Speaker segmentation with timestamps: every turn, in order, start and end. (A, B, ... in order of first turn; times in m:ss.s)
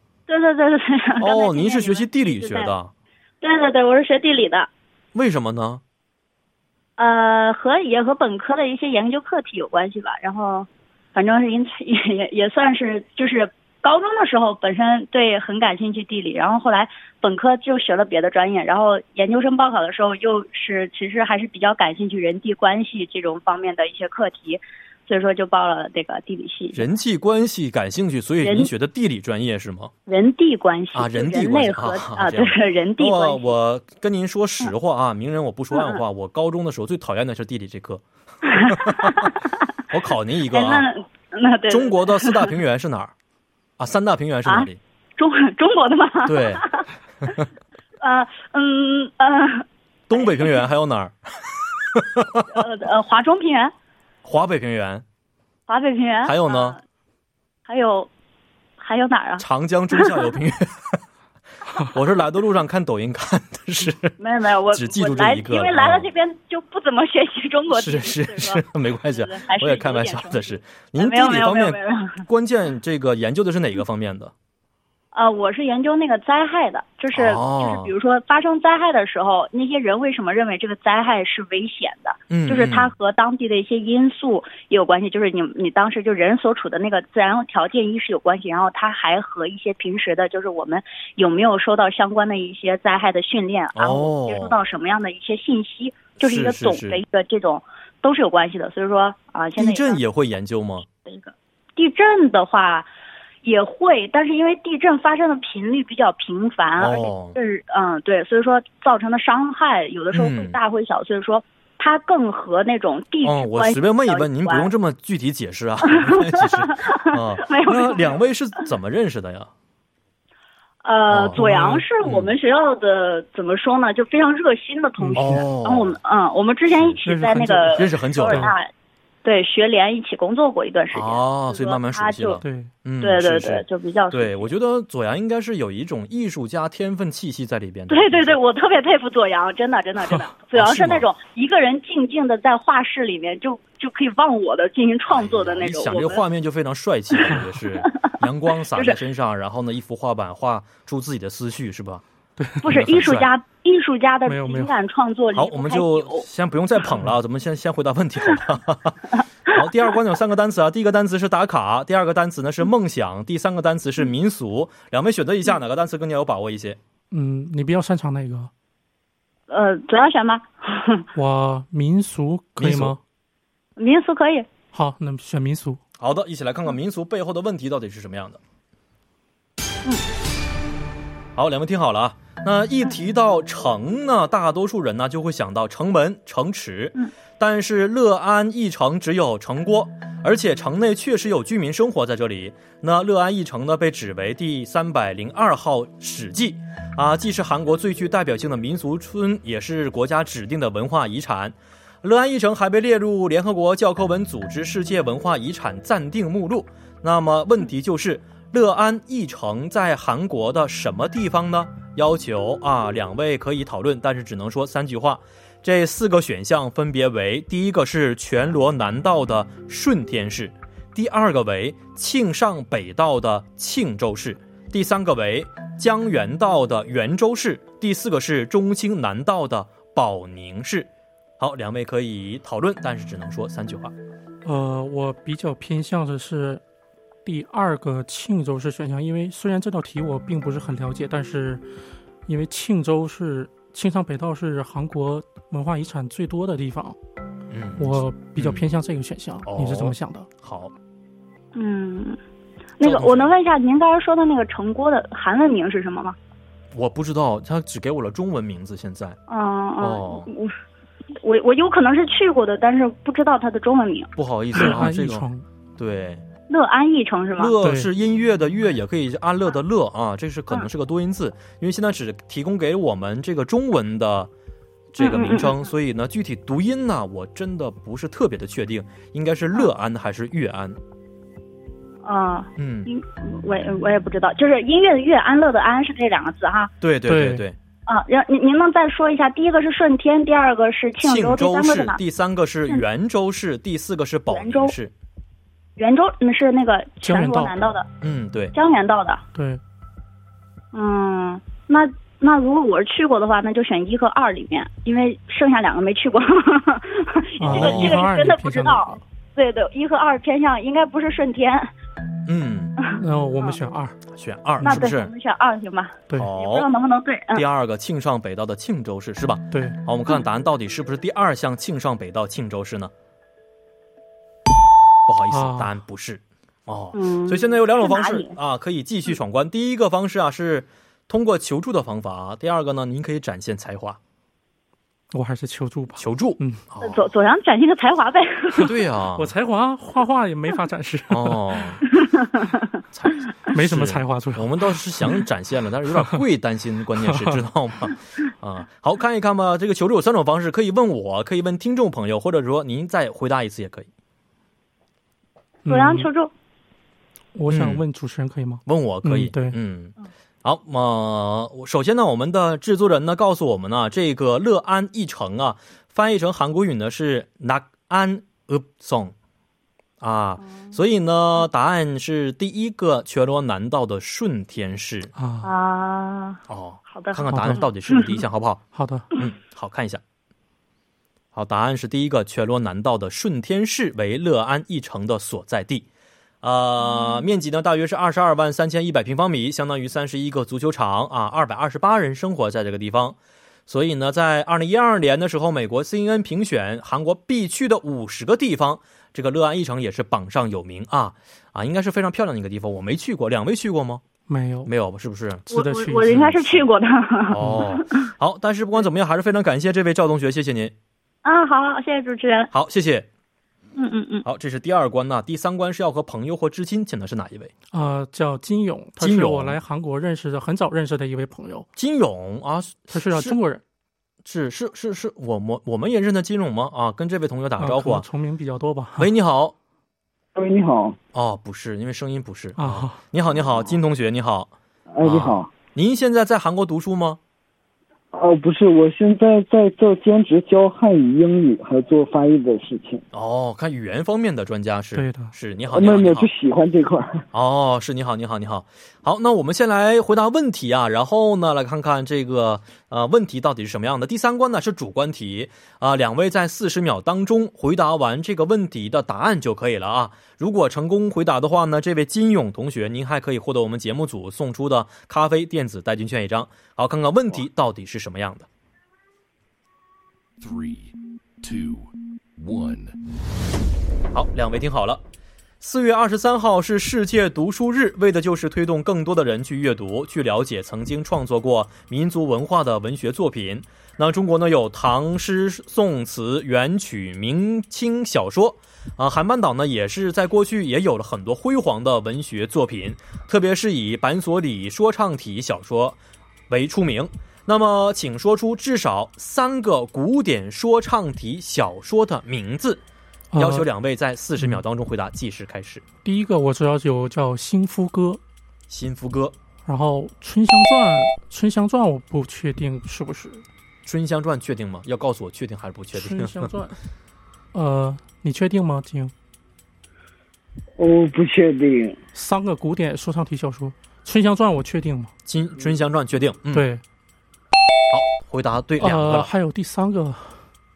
0:00.3-0:02.7 A
0:01.2-0:02.9 B
0:03.4-0:04.7 A
0:05.1-0:05.8 B
0:07.0-0:26.8 A
0:26.7-0:29.9 B
0:28.4-0:28.7 A
0:30.1-0:33.5 A
0:30.9-0:38.0 B
0:35.7-0:36.0 A
0:38.5-0:39.5 A
0:38.7-0:39.3 B
0:39.9-0:40.9 B
0:40.5-0:42.5 A
0:41.7-0:43.1 B
0:43.8-0:44.8 B
0:44.4-0:46.8 A
0:46.2-0:46.6 B
0:48.0-0:50.6 A
0:50.1-0:51.1 B
0:51.9-0:52.5 B
0:52.5-0:53.7 A
0:54.2-0:55.0 B
0:55.7-0:56.8 A
0:56.2-0:56.8 B
0:57.7-0:58.1 A
0:58.8-1:00.2 A
0:59.4-1:01.0 B
1:01.8-1:04.2 B
1:04.2-1:12.2 A
1:04.7-1:06.1 B
1:07.7-1:14.3 B
1:15.1-1:40.0 A
1:17.1-1:17.9 B
1:22.3-1:22.9 B
1:33.8-1:34.6 B
1:36.2-1:37.0 B
1:39.6-1:40.9 B
1:41.0-1:42.9 A
1:43.4-1:54.7 A
1:46.8-1:47.4 B
1:50.1-1:50.6 B
1:53.2-1:59.5 B
1:55.8-1:58.2 A
2:00.8-2:08.7 A
2:01.1-2:02.3 B
2:01.4-2:01.8 C
2:05.0-2:05.4 C
2:05.2-2:06.0 B
2:07.0-2:08.5 C
2:07.7-2:08.5 B
2:09.2-2:12.4 A
2:10.9-2:18.4 B
2:12.4-2:12.7 C
2:13.0-2:14.5 A
2:17.9-2:26.2 A
2:20.5-2:21.1 B
2:25.1-2:32.0 B
2:32.4-2:32.8 C
2:32.6-2:36.2 A
2:32.6-2:33.3 B
2:34.2-2:34.7 C
2:35.3-2:46.8 B
2:47.1-2:48.5 C
2:49.5-2:51.1 A
2:51.1-2:53.0 C
2:52.6-2:53.0 B
2:53.8-2:54.5 A
2:54.7-2:55.8 C
2:56.0-2:58.4 B
3:01.4-3:53.9 B
3:54.4-3:56.6 C
3:57.2-4:01.6 C
4:02.2-4:07.0 C
4:07.5-4:08.6 B
4:07.8-4:10.3 C
4:09.4-4:10.7 B
4:11.5-4:12.2 A
4:12.8-4:16.2 A
4:12.8-4:13.3 B
4:16.7-4:19.2 B
4:19.3-4:20.5 A
4:19.8-4:20.3 B
4:21.2-4:24.1 A
4:24.2-4:26.2 B
4:24.5-4:25.4 C
4:26.5-4:27.5 A
4:27.4-4:34.3 B
4:27.6-4:27.9 C
4:34.9-4:40.8 B
4:35.0-4:35.5 A
4:42.0-4:46.7 A
4:42.6-4:42.9 B
4:46.8-4:47.6 B
4:47.1-4:47.4 C
4:47.9-4:52.0 A
4:51.0-4:54.9 B
4:54.3-4:54.7 A
4:55.8-4:57.9 A
4:57.0-4:57.6 C
4:58.0-4:58.5 B
4:58.5-4:59.2 A
4:59.3-4:59.6 C
5:00.7-5:11.7 A
5:07.4-5:09.0 C
5:07.4-5:08.0 B
5:12.2-5:12.7 B
5:12.9-5:14.0 C
5:14.1-5:15.1 B
5:14.6-5:14.9 C
5:14.6-5:17.4 A
5:16.1-5:16.7 B
5:17.3-5:22.9 B
5:19.5-5:19.8 C
5:25.1-5:34.0 B
5:25.3-5:25.7 C
5:26.9-5:28.3 A
5:35.1-5:36.6 C
5:36.0-5:37.1 B
5:36.8-5:38.7 A
5:38.6-5:39.3 B
5:38.6-5:41.6 C
5:41.1-5:41.8 B
5:42.2-5:42.5 A
5:42.9-5:53.9 B
5:43.5-5:45.2 C
5:45.9-5:46.2 C
5:47.0-5:47.4 C
5:55.6-5:56.1 C
5:55.7-5:56.3 A
5:57.3-5:59.6 C
5:57.5-5:57.8 B
5:58.6-6:09.1 B
6:10.0-6:15.1 B
6:10.4-6:10.7 A
6:15.2-6:15.5 C
6:15.4-6:18.0 A
6:16.5-6:20.0 B
6:17.3-6:17.6 C
6:18.7-6:19.1 C
6:21.3-6:25.8 B
6:26.4-6:33.2 B
6:33.7-6:44.0 B
6:44.3-6:44.7 C
6:44.6-6:45.4 B
6:45.5-6:46.2 C
6:45.5-6:48.1 A
6:46.0-6:46.6 B
6:47.3-6:50.7 B
6:51.2-6:52.5 A
6:52.5-6:53.1 B
6:53.8-6:54.2 A
6:54.2-6:57.5 B
6:57.7-7:01.7 C
6:59.0-6:59.6 B
7:01.8-7:03.4 B
7:02.9-7:03.6 C
7:04.2-7:08.0 B
7:07.6-7:09.1 C
7:09.0-7:09.5 B
7:10.3-7:11.0 D
7:11.1-7:17.2 B
7:12.6-7:13.0 C
7:14.9-7:15.5 D
7:18.1-7:23.0 D
7:23.1-7:26.3 B
7:24.9-7:25.3 C
7:25.7-7:27.2 D
7:27.3-7:48.5 B
7:50.4-7:53.0 E
7:54.1-7:55.0 B
7:55.6-8:22.8 B
8:23.3-8:23.7 C
8:23.4-8:25.8 B
8:26.0-8:28.2 C
8:28.7-8:29.4 B
8:29.6-8:33.4 C
8:33.8-8:36.5 B
8:35.9-8:36.8 C
8:37.5-8:39.1 C
8:40.8-8:42.0 D
8:42.1-8:45.1 C
8:45.2-8:46.7 B
8:46.5-8:46.8 C
8:47.9-8:49.3 B
8:48.8-8:50.5 C